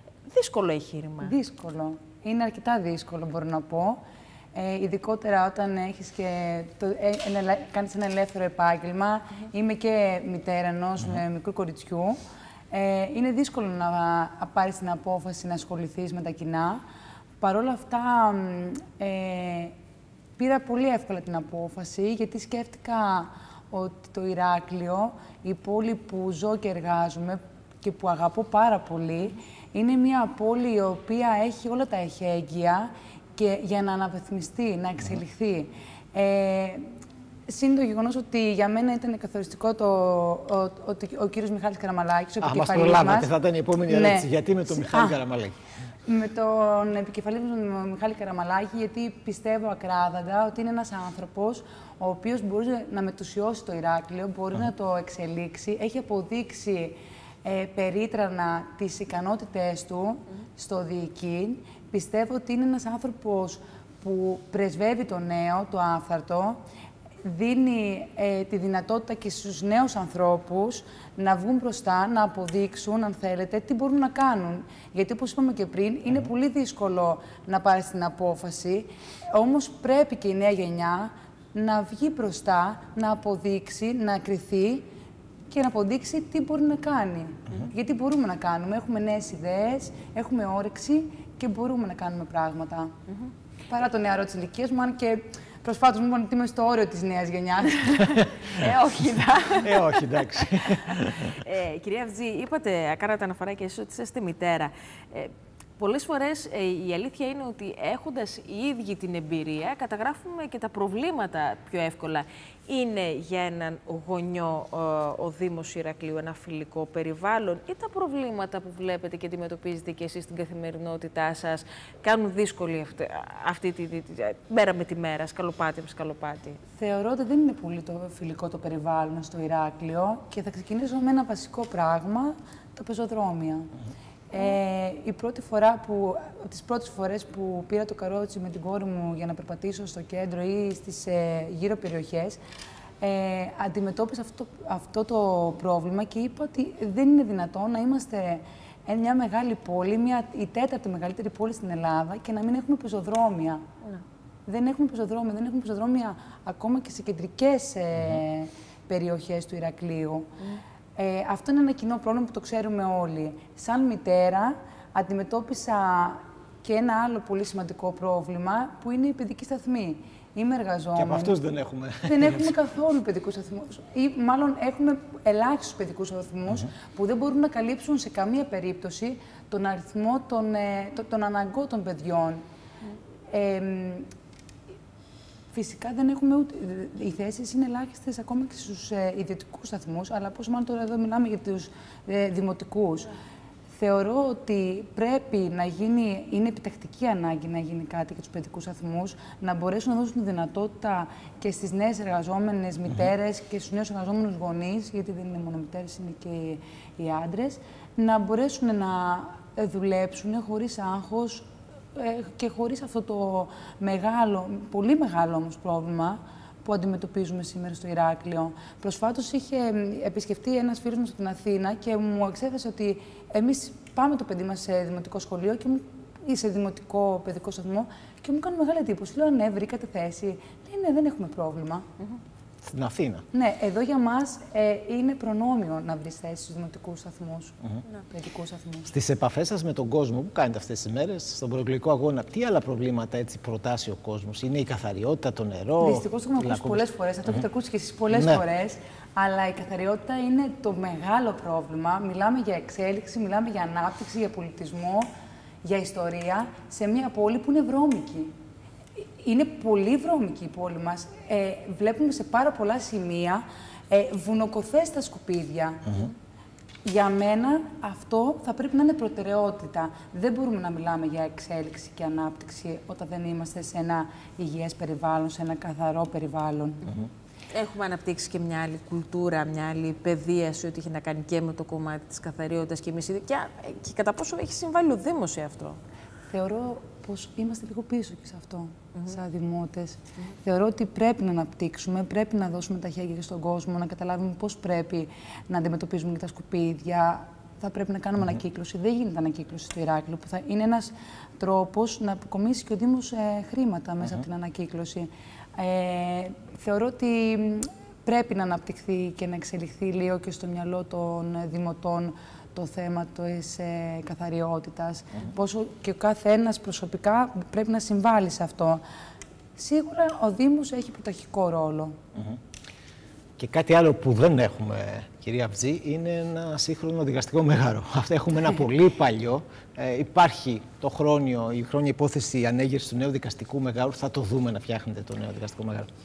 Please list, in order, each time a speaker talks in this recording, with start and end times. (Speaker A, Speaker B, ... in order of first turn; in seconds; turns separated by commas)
Speaker A: 0.3-1.4, Speaker B: 1.2-4.0, Speaker B: 4.5-12.2, Speaker B: 12.7-16.8, Speaker B: 17.4-19.8, Speaker B: 20.4-36.9, Speaker B: 37.5-45.2, Speaker C: 42.4-45.6, Speaker B: 46.1-66.6, Speaker B: 67.2-84.9, Speaker B: 85.5-92.9, Speaker B: 93.7-98.2, Speaker A: 98.4-126.6, Speaker C: 99.6-101.4, Speaker B: 126.8-133.7, Speaker B: 134.3-142.4, Speaker B: 143.0-153.6, Speaker B: 154.5-160.3, Speaker B: 161.0-171.4, Speaker C: 171.0-172.5, Speaker B: 172.1-182.4, Speaker B: 183.3-184.1, Speaker B: 185.5-193.1, Speaker B: 193.8-231.8, Speaker C: 232.6-233.2, Speaker B: 233.3-237.6, Speaker B: 238.1-238.9, Speaker C: 238.9-247.4, Speaker B: 245.8-255.1, Speaker C: 248.1-248.4, Speaker B: 255.6-258.3, Speaker B: 259.0-266.0, Speaker B: 266.8-276.8, Speaker A: 277.5-285.8, Speaker B: 286.3-318.8, Speaker B: 319.6-322.0, Speaker C: 323.4-335.9